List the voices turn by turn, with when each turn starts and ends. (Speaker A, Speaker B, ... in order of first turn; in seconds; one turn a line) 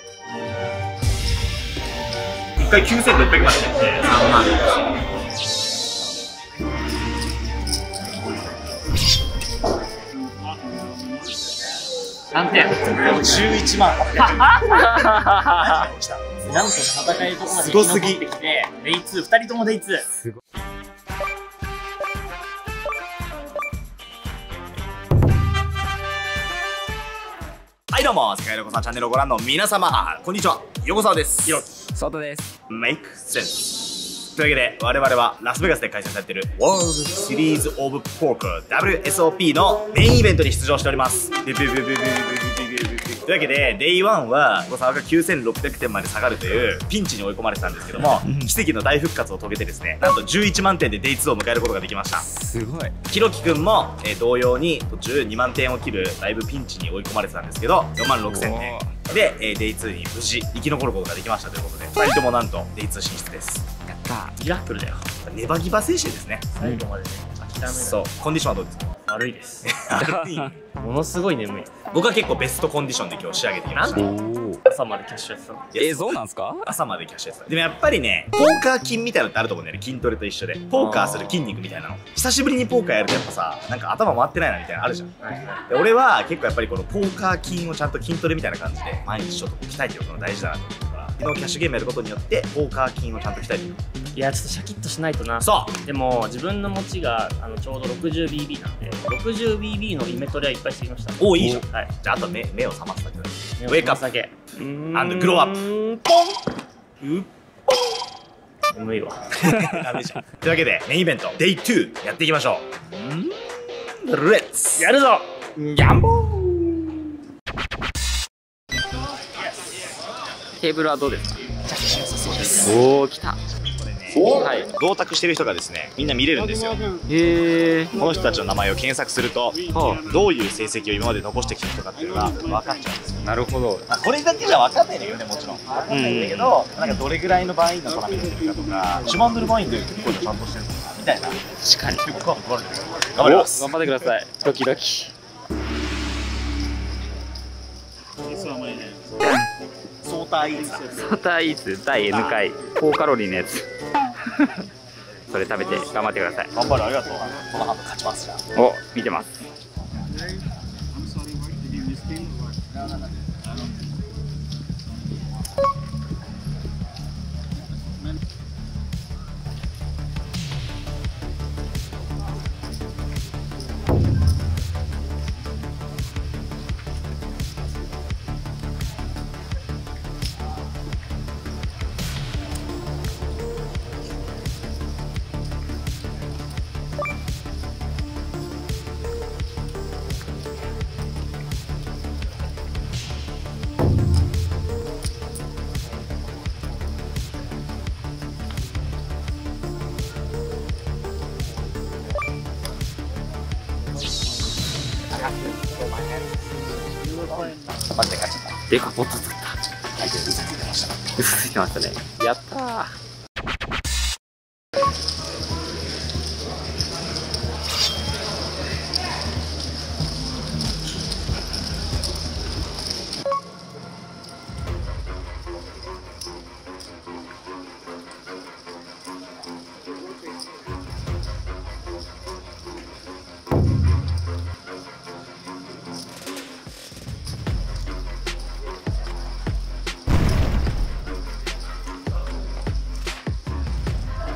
Speaker A: 2.6-4.4
Speaker B: 12.3-13.3
Speaker A: 12.9-14.6
Speaker B: 14.2-15.4
Speaker C: 14.8-15.6
Speaker A: 15.5-16.3
Speaker B: 16.4-20.1
Speaker A: 17.5-18.2
Speaker A: 27.9-31.7
Speaker C: 31.9-32.5
Speaker A: 32.7-52.2
Speaker C: 48.0-48.5
Speaker C: 52.1-52.9
Speaker A: 53.0-63.6
Speaker C: 58.2-59.0
Speaker C: 63.9-64.4
Speaker B: 64.4-65.0
Speaker A: 65.2-66.5
Speaker B: 66.6-68.1
Speaker A: 67.7-68.9
Speaker B: 69.1-69.7
Speaker A: 69.7-70.6
Speaker C: 70.0-70.5
Speaker B: 70.8-71.7
Speaker A: 71.9-74.1
Speaker B: 73.7-75.6
Speaker C: 73.9-74.6
Speaker A: 75.7-85.1
Speaker C: 75.8-76.8
Speaker B: 80.8-81.3
Speaker B: 85.2-85.6
Speaker A: 85.7-93.8
Speaker B: 94.1-101.9
Speaker A: 95.4-95.8
Speaker A: 101.2-104.0
Speaker B: 103.6-106.2
Speaker A: 104.9-105.6
Speaker B: 108.7-109.2
Speaker A: 109.4-112.7
Speaker A: 114.0-114.9
Speaker B: 114.8-115.2
Speaker C: 115.5-116.9
Speaker C: 120.6-121.5
Speaker A: 121.7-122.7
Speaker C: 122.6-123.4
Speaker A: 123.7-126.8
Speaker C: 124.2-124.7
Speaker C: 127.1-127.9
Speaker A: 128.0-133.2
Speaker C: 129.7-130.0
Speaker C: 133.2-133.9
Speaker A: 133.9-141.4
Speaker C: 135.9-136.6
Speaker C: 141.6-142.1
Speaker A: 141.9-143.7
Speaker C: 143.2-145.1
Speaker C: 149.2-149.5
Speaker A: 150.0-150.9
Speaker C: 150.9-153.7
Speaker C: 154.3-154.6
Speaker C: 155.3-156.5
Speaker A: 156.5-158.4
Speaker C: 158.5-159.3
Speaker B: 205.2-206.0
Speaker B: 207.1-207.5
Speaker A: 207.8-208.6
Speaker C: 208.7-209.6
Speaker A: 210.0-210.9
Speaker C: 211.2-212.9